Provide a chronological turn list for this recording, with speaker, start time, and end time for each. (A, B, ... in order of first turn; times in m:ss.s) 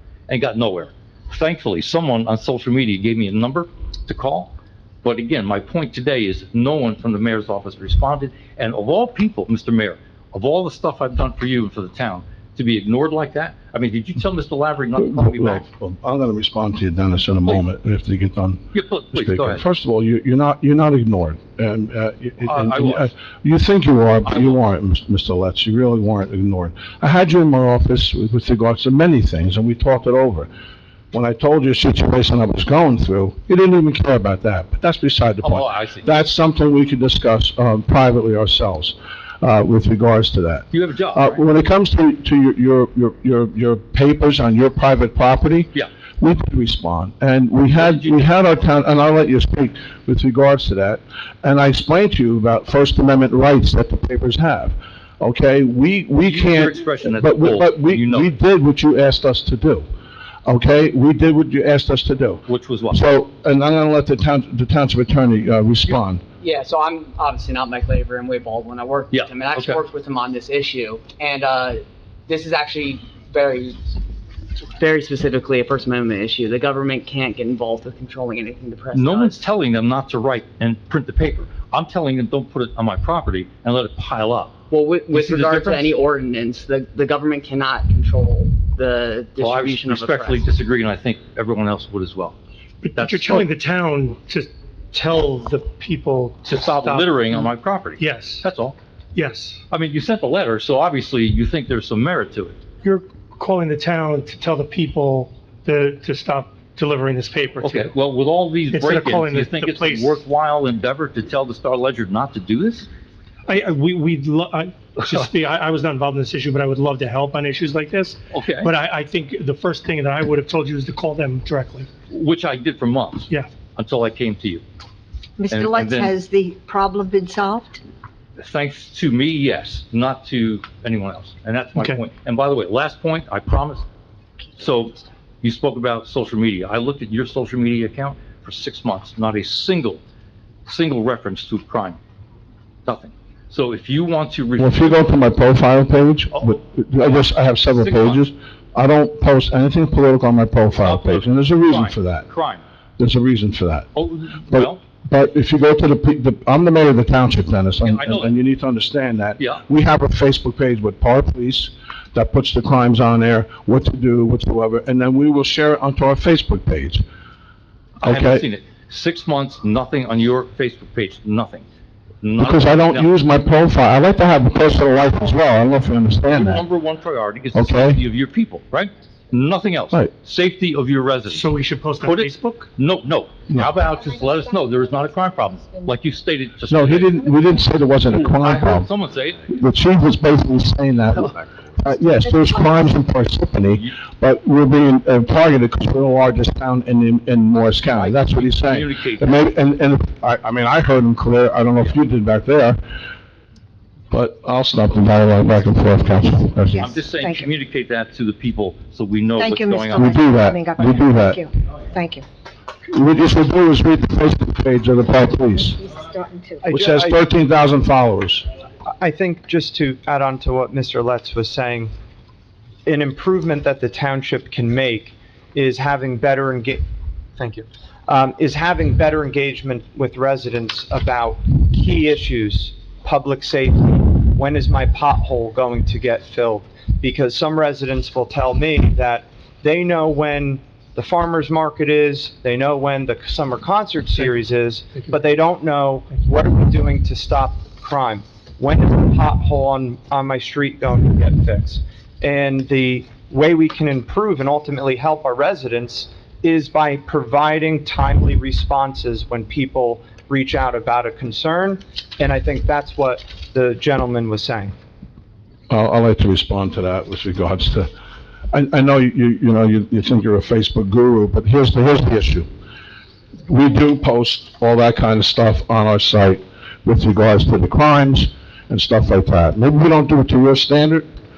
0:00.3-0:04.5 A
0:05.0-0:15.6 A
0:15.0-0:30.5 B
0:18.7-0:19.6 A
0:22.4-0:23.1 A
0:24.2-0:24.6 A
0:31.1-0:59.9 B
0:35.4-0:36.1 A
0:40.7-0:41.4 A
0:47.7-0:48.3 A
0:56.2-0:58.3 A
1:00.4-1:06.2 B
1:02.5-1:03.1 A
1:06.4-1:13.8 C
1:09.1-1:09.8 A
1:14.8-1:19.4 C
1:18.9-1:24.6 A
1:24.7-1:30.5 C
1:25.1-1:25.9 A
1:29.4-1:32.4 A
1:32.8-1:37.5 D
1:33.0-1:33.4 A
1:36.4-1:38.8 A
1:38.0-1:38.4 D
1:39.1-1:39.6 D
1:39.7-1:42.6 A
1:42.8-1:47.9 D
1:47.6-1:52.9 A
1:48.7-1:50.2 D
1:53.5-2:01.9 D
1:55.0-1:55.3 A
1:58.3-1:58.7 A
2:02.1-2:04.6 A
2:05.4-2:07.8 E
2:05.5-2:06.1 A
2:08.4-2:13.8 A
2:14.6-2:20.0 A
2:20.6-2:22.0 A
2:22.8-2:25.2 A
2:24.6-2:32.3 B
2:26.3-2:28.2 A
2:30.8-2:32.6 A
2:33.0-2:33.9 B
2:33.9-2:34.8 A
2:34.4-2:47.0 B
2:37.8-2:38.3 A
2:48.0-2:51.6 A
2:48.0-2:48.4 B
2:52.2-2:53.1 A
2:52.4-2:56.6 B
2:56.3-3:01.4 A
2:57.5-2:58.0 B
3:01.3-3:02.7 D
3:02.0-3:07.2 A
3:03.5-3:03.7 B
3:03.8-3:06.0 E
3:06.7-3:08.9 B
3:07.2-3:07.6 E
3:08.1-3:09.5 A
3:09.5-3:22.8 B
3:12.0-3:13.0 E
3:18.0-3:19.3 A
3:24.1-3:26.9 B
3:26.6-3:27.5 E
3:26.8-3:30.2 A
3:29.4-3:32.2 E
3:29.9-3:31.4 B
3:32.9-3:35.8 B
3:35.6-3:36.8 E
3:36.6-3:37.2 F
3:36.7-3:38.4 B
3:38.8-3:41.9 F
3:42.8-3:46.8 F
3:47.4-4:24.7 F
4:25.7-4:27.9 B
4:28.5-4:32.5 B
4:33.5-4:41.0 B